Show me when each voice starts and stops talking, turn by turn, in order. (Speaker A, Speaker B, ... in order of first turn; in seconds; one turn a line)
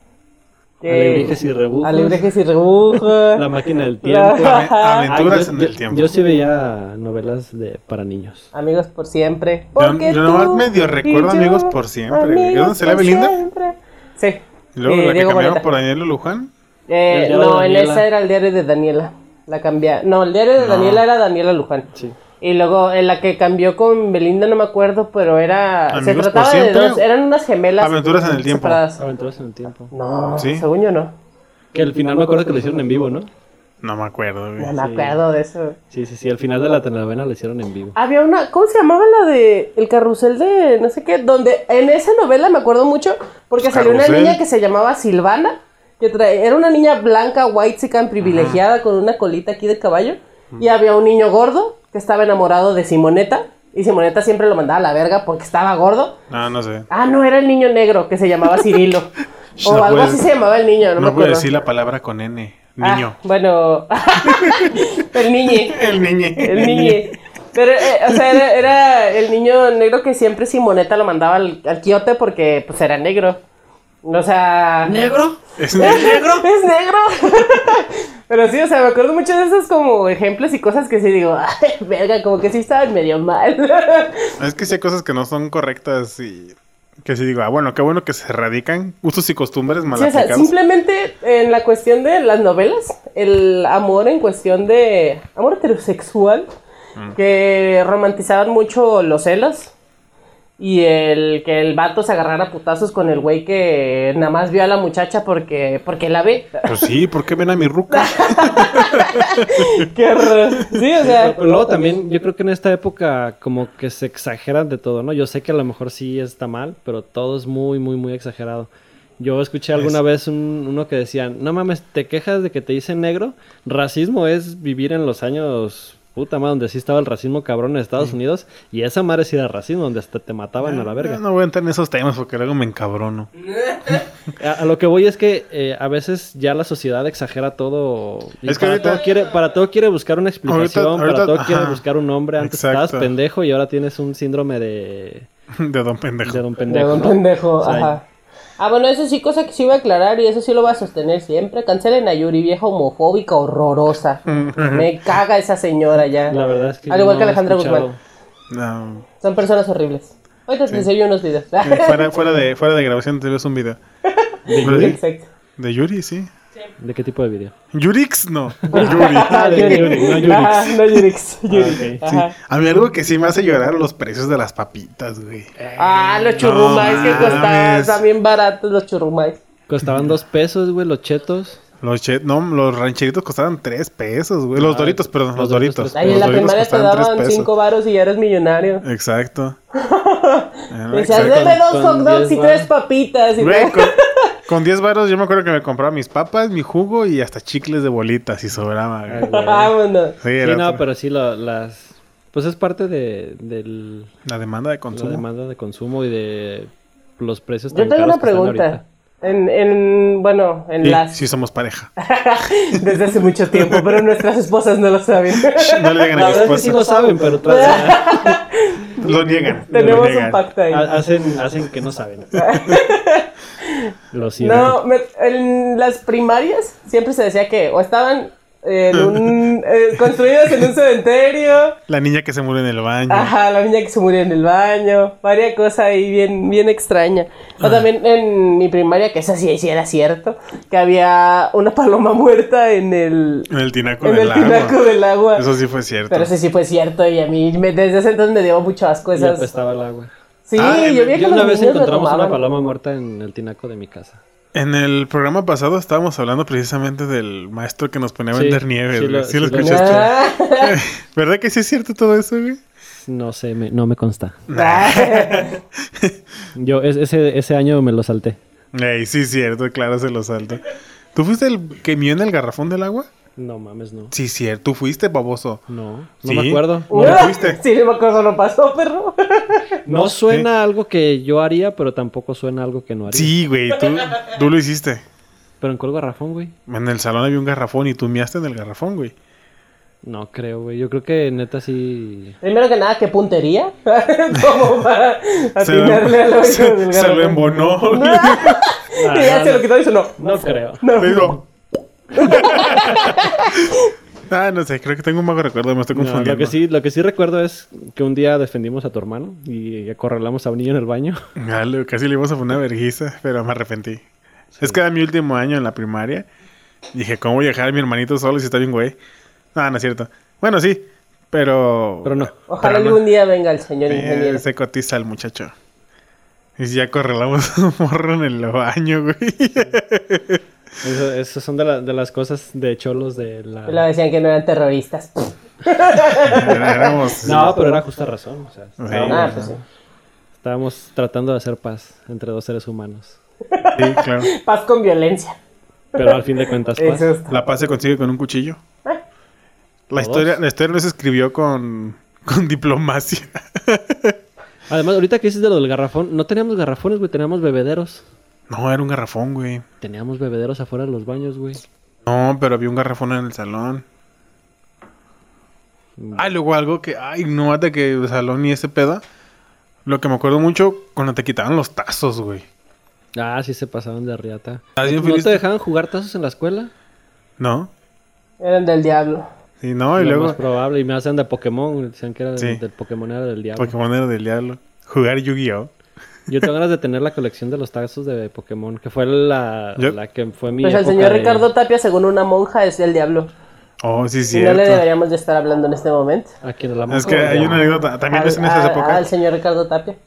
Speaker A: 0.8-3.4
Speaker B: 0.9-2.3
Speaker B: 2.9-8.5
Speaker A: 4.0-5.1
Speaker C: 4.4-6.1
Speaker A: 8.5-15.7
Speaker C: 9.8-13.3
Speaker C: 14.7-16.5
Speaker A: 16.9-21.9
Speaker B: 17.1-18.1
Speaker C: 20.6-21.0
Speaker A: 22.4-29.0
Speaker C: 25.9-27.0
Speaker C: 27.8-28.8
Speaker B: 29.0-29.9
Speaker A: 29.9-31.1
Speaker C: 30.4-30.7
Speaker B: 31.7-33.3
Speaker C: 33.8-34.7
Speaker A: 34.6-35.8
Speaker B: 34.8-35.2
Speaker B: 35.9-37.9
Speaker A: 38.0-56.2
Speaker C: 43.6-44.4
Speaker C: 48.2-48.6
Speaker C: 56.3-56.9
Speaker A: 56.9-59.1
Speaker C: 59.6-60.2
Speaker A: 59.6-61.5
Speaker C: 61.0-63.2
Speaker A: 62.8-73.4
Speaker C: 64.2-64.8
Speaker C: 65.5-67.1
Speaker A: 74.0-75.0
Speaker B: 74.9-76.4
Speaker C: 75.6-76.2
Speaker A: 75.8-84.3
Speaker C: 84.4-90.5
Speaker A: 89.9-96.5
Speaker A: 97.1-99.7
Speaker A: 100.6-106.9
Speaker C: 106.7-109.9
Speaker A: 107.9-111.4
Speaker B: 111.0-131.2
Speaker C: 130.6-133.3
Speaker B: 134.4-145.3
Speaker C: 138.4-139.0
Speaker C: 140.5-141.8
Speaker C: 142.4-143.1
Speaker C: 145.5-146.4
Speaker B: 146.2-148.0
Speaker A: 146.7-148.0
Speaker A: 148.6-157.9
Speaker C: 154.3-155.2
Speaker B: 156.3-158.0
Speaker C: 158.5-159.1
Speaker A: 159.2-162.2
Speaker C: 161.6-163.8
Speaker A: 164.1-165.3
Speaker B: 164.4-165.0
Speaker C: 164.6-165.0
Speaker C: 165.6-166.3
Speaker B: 166.8-167.5
Speaker C: 167.7-170.5
Speaker B: 168.6-170.8
Speaker A: 168.7-172.3
Speaker B: 171.5-172.0
Speaker C: 172.0-175.5
Speaker B: 175.6-177.4
Speaker A: 175.8-179.4
Speaker C: 176.4-178.0
Speaker B: 179.7-181.6
Speaker C: 179.8-180.1
Speaker C: 181.8-187.5
Speaker B: 184.5-186.5
Speaker A: 185.9-188.9
Speaker C: 188.8-189.6
Speaker A: 189.7-194.3
Speaker C: 190.7-191.6
Speaker B: 191.1-192.7
Speaker C: 193.4-199.4
Speaker B: 199.1-199.7
Speaker A: 199.2-200.2
Speaker C: 200.2-200.8
Speaker B: 200.4-204.1
Speaker C: 204.2-205.2
Speaker B: 204.9-208.8
Speaker A: 207.7-211.1
Speaker C: 210.8-211.9
Speaker A: 212.0-216.7
Speaker C: 212.8-214.2
Speaker C: 215.3-216.9
Speaker B: 216.1-218.4
Speaker A: 217.3-218.9
Speaker C: 219.0-220.4
Speaker A: 219.7-220.9
Speaker B: 219.7-220.1
Speaker B: 220.7-222.4
Speaker A: 222.4-231.8
Speaker B: 224.1-224.8
Speaker C: 228.9-229.3
Speaker C: 230.4-230.7
Speaker C: 231.9-233.3
Speaker A: 233.1-243.5
Speaker C: 237.6-237.9
Speaker C: 243.5-244.8
Speaker A: 244.0-245.5
Speaker C: 245.3-246.3
Speaker A: 246.1-249.4
Speaker B: 249.2-250.1
Speaker A: 250.5-252.4
Speaker C: 250.6-251.1
Speaker B: 250.9-254.2
Speaker C: 254.5-262.6
Speaker B: 258.3-260.1
Speaker A: 259.5-260.8
Speaker B: 263.0-264.4
Speaker C: 264.5-266.2
Speaker A: 264.5-265.6
Speaker B: 266.5-268.4
Speaker C: 268.7-273.1
Speaker B: 273.4-274.1
Speaker C: 274.1-275.6
Speaker B: 275.7-277.3
Speaker C: 276.2-277.6
Speaker A: 276.9-279.6
Speaker B: 279.9-283.3
Speaker C: 283.1-285.0
Speaker B: 285.6-286.5
Speaker C: 286.7-289.1
Speaker B: 290.0-292.4
Speaker A: 292.4-301.4
Speaker C: 295.6-298.6
Speaker B: 298.9-300.8
Speaker C: 301.0-301.4
Speaker A: 302.1-303.9
Speaker C: 302.2-303.7
Speaker C: 304.3-306.6
Speaker B: 305.9-311.2
Speaker C: 311.4-314.0
Speaker B: 314.5-314.8
Speaker C: 314.6-316.3
Speaker C: 316.9-319.0
Speaker C: 319.5-323.0
Speaker B: 322.0-322.4
Speaker A: 322.5-324.4
Speaker C: 323.9-325.5
Speaker C: 326.6-330.4
Speaker B: 330.8-333.9
Speaker A: 333.7-337.2
Speaker C: 336.2-337.6
Speaker B: 337.2-339.5
Speaker C: 338.8-339.5
Speaker A: 339.1-339.6
Speaker B: 340.4-343.2
Speaker A: 343.5-345.4
Speaker C: 343.7-344.3
Speaker A: 345.9-346.2
Speaker B: 345.9-347.1
Speaker A: 346.8-347.3
Speaker C: 347.3-348.6
Speaker C: 349.9-354.2
Speaker B: 350.0-350.4
Speaker B: 354.7-358.0
Speaker C: 358.5-359.6
Speaker B: 359.8-361.6
Speaker C: 362.0-363.9
Speaker B: 366.0-366.2
Speaker C: 366.1-369.0
Speaker C: 369.9-372.4
Speaker B: 373.1-376.7
Speaker C: 374.8-375.4
Speaker C: 377.4-377.7
Speaker A: 378.4-379.3
Speaker C: 379.6-380.4
Speaker B: 380.0-383.7
Speaker C: 383.6-385.7
Speaker B: 386.3-391.5
Speaker A: 390.6-393.3
Speaker C: 393.8-394.9
Speaker A: 394.3-396.3
Speaker B: 396.4-397.6
Speaker C: 396.9-399.1
Speaker A: 398.1-400.0